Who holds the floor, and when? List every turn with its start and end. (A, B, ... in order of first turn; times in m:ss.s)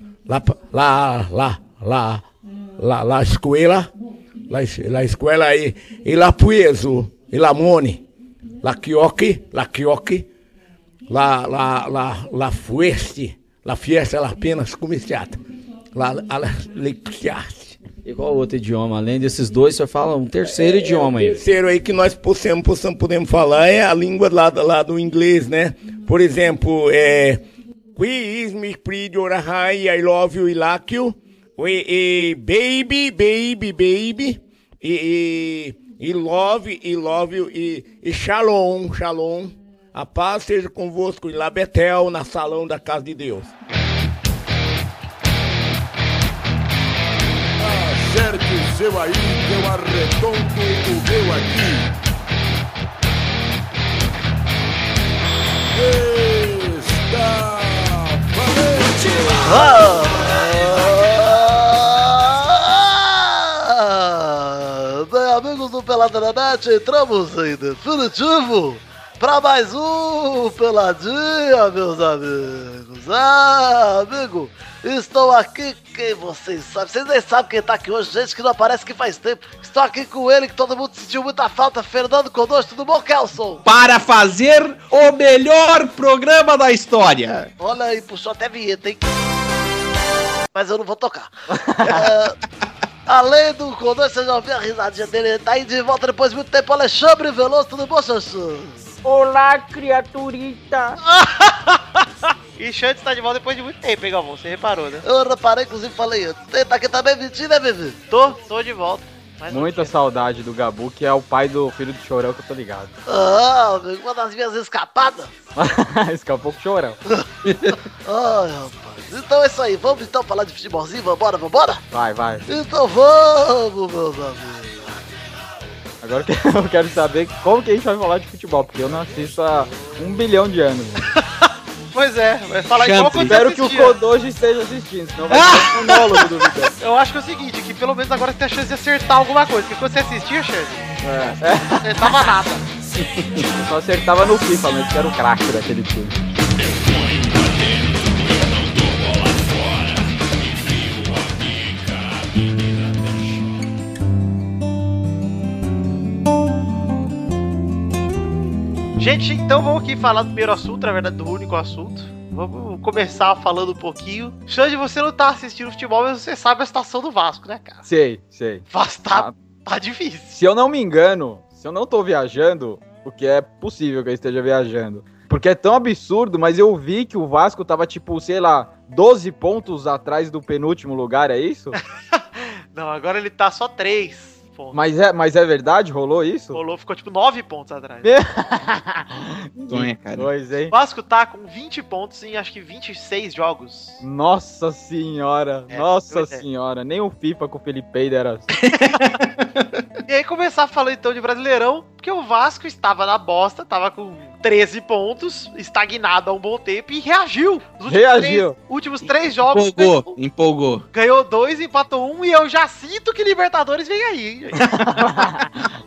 0:00.3-0:02.2 A
0:02.8-0:03.9 A
0:04.5-0:08.0 A
0:08.6-0:10.3 A
0:11.1-0:15.4 A
0:15.9-0:17.9 A
0:18.0-0:21.4 B
0:20.4-0:43.5 A
0:47.6-0:51.9 C
0:55.7-0:59.9 C
0:59.4-1:23.6 D
1:23.6-1:27.5 E
1:27.6-1:29.1 D
1:30.5-1:31.3 D
1:31.5-1:32.0 F
1:31.8-1:32.4 D
1:33.1-1:38.8 D
1:39.0-1:41.0 F
1:41.2-1:41.8 G
1:42.6-1:45.0 G
1:45.0-1:48.0 D
1:48.1-1:49.9 G
1:49.5-1:52.9 F
1:53.1-1:55.3 D
1:55.6-1:57.0 F
1:57.1-2:01.8 D
1:57.4-1:57.8 E
2:01.9-2:02.5 F
2:02.5-2:04.9 D
2:06.0-2:11.1 F
2:11.4-2:14.0 G
2:12.8-2:13.4 E
2:13.2-2:16.7 F
2:15.3-2:16.0 E
2:16.8-2:21.0 G
2:21.1-2:21.4 E
2:21.4-2:22.3 F
2:21.7-2:22.6 G
2:23.0-2:23.4 E
2:23.4-2:26.2 F
2:39.0-2:47.8 G
2:47.8-2:49.3 F
2:48.7-2:50.4 G
2:50.3-3:01.8 F
3:01.8-3:04.8 G
3:04.7-3:06.6 F
3:06.5-3:08.1 G
3:08.0-3:10.7 F
3:09.7-3:10.3 E
3:10.7-3:14.0 G
3:14.0-3:18.5 F
3:15.7-3:16.4 G
3:18.5-3:19.8 E
3:20.1-3:30.2 G
3:27.9-3:28.6 F
3:29.4-3:30.8 E
3:30.9-3:35.3 G
3:34.8-3:35.7 F